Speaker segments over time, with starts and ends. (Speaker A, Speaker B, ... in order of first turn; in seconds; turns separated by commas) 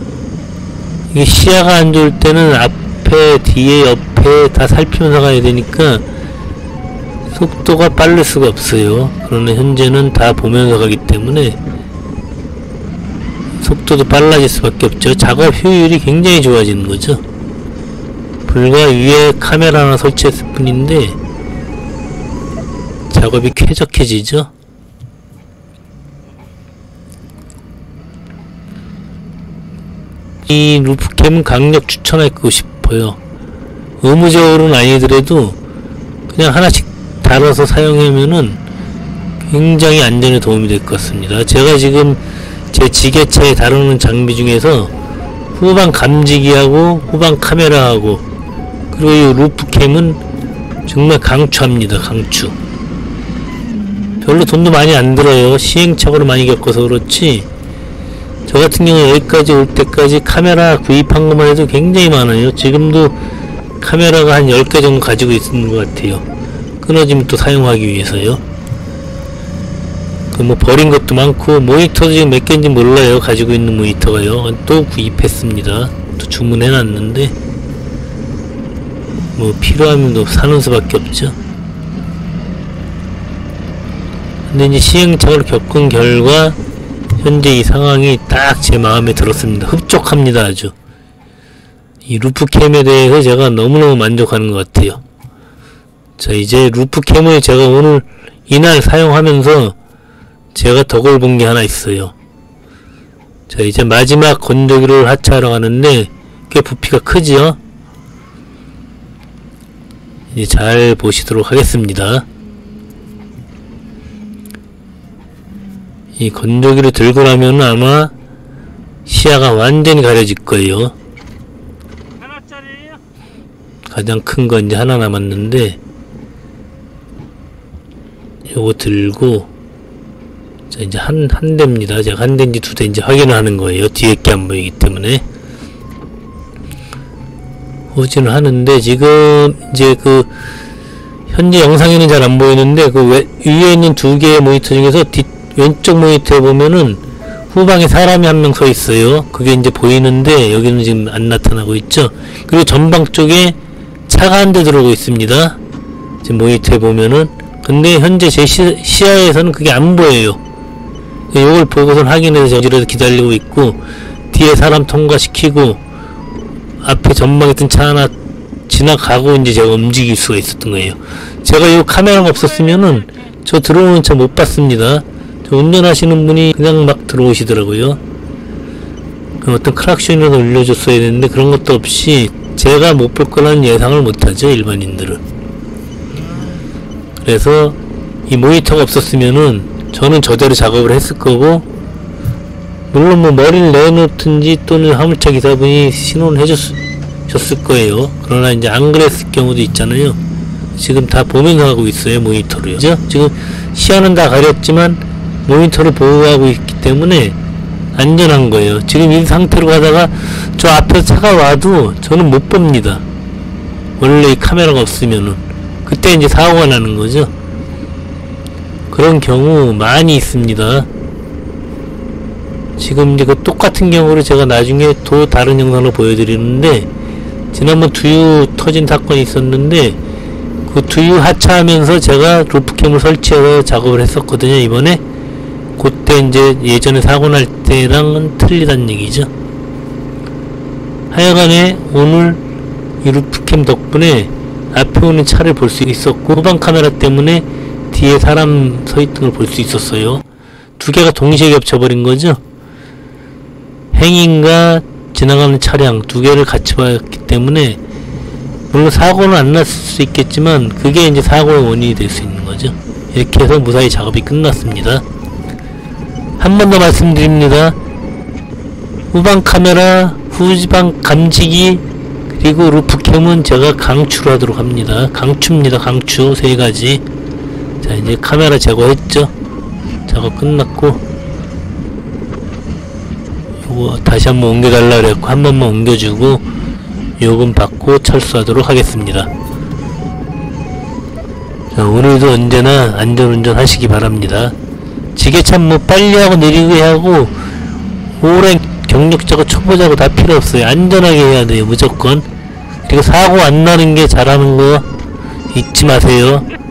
Speaker A: 1.1-6.0, Speaker A: 7.3-11.6, Speaker A: 13.6-17.2, Speaker A: 18.4-21.2, Speaker A: 23.1-24.5, Speaker A: 30.4-33.2, Speaker A: 34.0-35.6, Speaker A: 36.3-38.6, Speaker A: 39.4-44.9, Speaker A: 45.5-48.2, Speaker A: 48.9-50.2, Speaker A: 50.9-52.5, Speaker A: 54.2-57.5, Speaker A: 58.5-63.1, Speaker A: 63.8-66.2, Speaker A: 66.8-68.4, Speaker A: 70.3-77.3, Speaker A: 79.3-81.4, Speaker A: 84.5-86.6, Speaker A: 87.2-90.7, Speaker A: 92.1-95.0, Speaker A: 96.2-99.8, Speaker A: 100.5-102.1, Speaker A: 103.5-107.6, Speaker A: 110.3-112.2, Speaker A: 116.2-118.1, Speaker A: 119.0-120.9, Speaker A: 123.9-125.8, Speaker A: 128.5-129.5, Speaker A: 130.7-135.2, Speaker A: 137.9-140.3, Speaker A: 141.3-153.6, Speaker A: 154.1-155.6, Speaker A: 156.2-160.4, Speaker A: 161.3-163.8, Speaker A: 164.3-165.8, Speaker A: 166.8-168.1, Speaker A: 168.7-178.0, Speaker A: 179.4-185.2, Speaker A: 187.2-187.8, Speaker A: 188.3-191.7, Speaker A: 192.9-200.2, Speaker A: 200.8-207.4, Speaker A: 207.9-213.0, Speaker A: 214.0-217.3, Speaker A: 218.9-220.9, Speaker A: 222.8-226.9, Speaker A: 227.5-230.0, Speaker A: 230.7-235.0, Speaker A: 235.8-239.3, Speaker A: 241.1-242.4, Speaker A: 243.0-250.2, Speaker A: 250.8-252.4, Speaker A: 253.9-257.8, Speaker A: 258.7-265.0, Speaker A: 266.4-267.8, Speaker A: 269.1-277.0, Speaker A: 277.8-279.3, Speaker A: 280.1-281.0, Speaker A: 283.6-286.4, Speaker A: 287.2-289.3, Speaker A: 291.7-294.5, Speaker A: 295.1-297.4, Speaker A: 298.2-302.2, Speaker A: 302.9-304.9, Speaker A: 305.5-306.5